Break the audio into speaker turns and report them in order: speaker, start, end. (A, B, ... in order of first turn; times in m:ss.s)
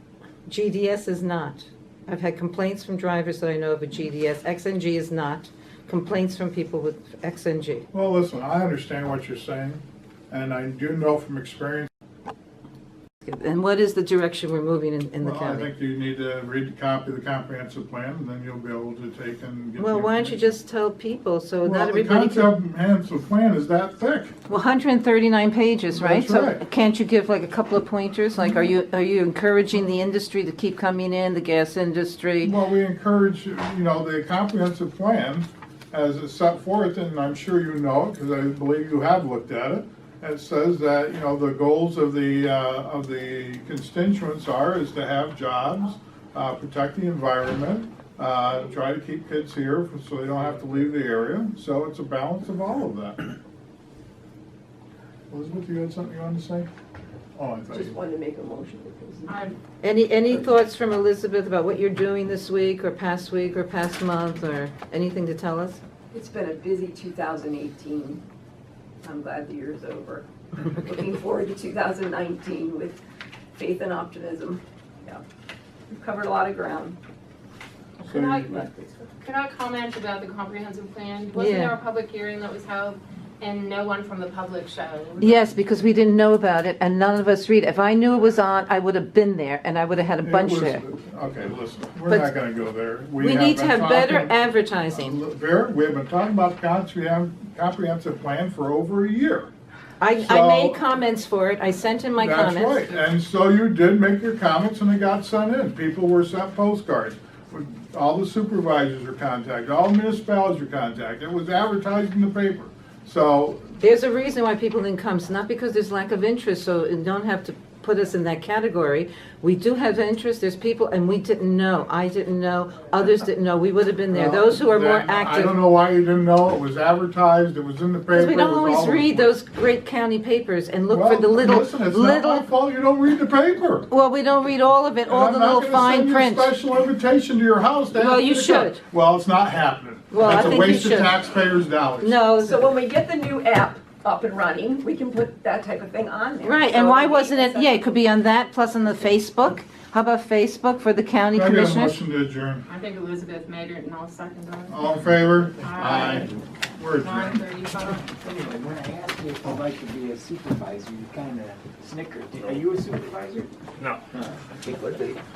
0:00.5-0:07.9 A
0:07.9-0:11.9 B
0:13.2-0:15.7 A
0:15.2-0:20.5 B
0:19.8-0:22.5 A
0:21.6-0:24.3 B
0:24.5-0:32.5 A
0:25.9-0:26.6 B
0:32.4-0:53.3 B
0:55.3-0:56.7 B
0:57.4-0:58.0 B
0:57.7-0:59.4 C
0:59.3-0:59.6 D
0:59.8-1:05.8 A
1:06.1-1:08.2 C
1:09.0-1:13.0 C
1:13.6-1:15.2 C
1:15.9-1:17.0 C
1:18.0-1:25.5 D
1:18.0-1:18.5 B
1:18.5-1:19.1 C
1:21.4-1:21.8 A
1:25.2-1:30.8 A
1:30.2-1:39.5 B
1:33.2-1:35.2 A
1:40.0-1:43.0 A
1:40.2-1:40.8 B
1:42.2-1:53.7 B
1:53.8-2:05.6 A
2:04.1-2:09.3 B
2:08.1-2:12.5 A
2:10.9-2:13.9 B
2:13.9-2:16.5 A
2:15.1-2:22.2 B
2:17.9-2:18.8 A
2:20.1-2:21.2 A
2:22.0-2:22.6 A
2:22.4-2:27.8 C
2:26.4-2:32.0 A
2:31.3-2:32.6 B
2:32.7-2:34.9 D
2:34.7-2:37.5 B
2:35.6-2:36.4 D
2:37.0-2:38.1 D
2:38.1-2:43.5 E
2:44.2-2:45.2 E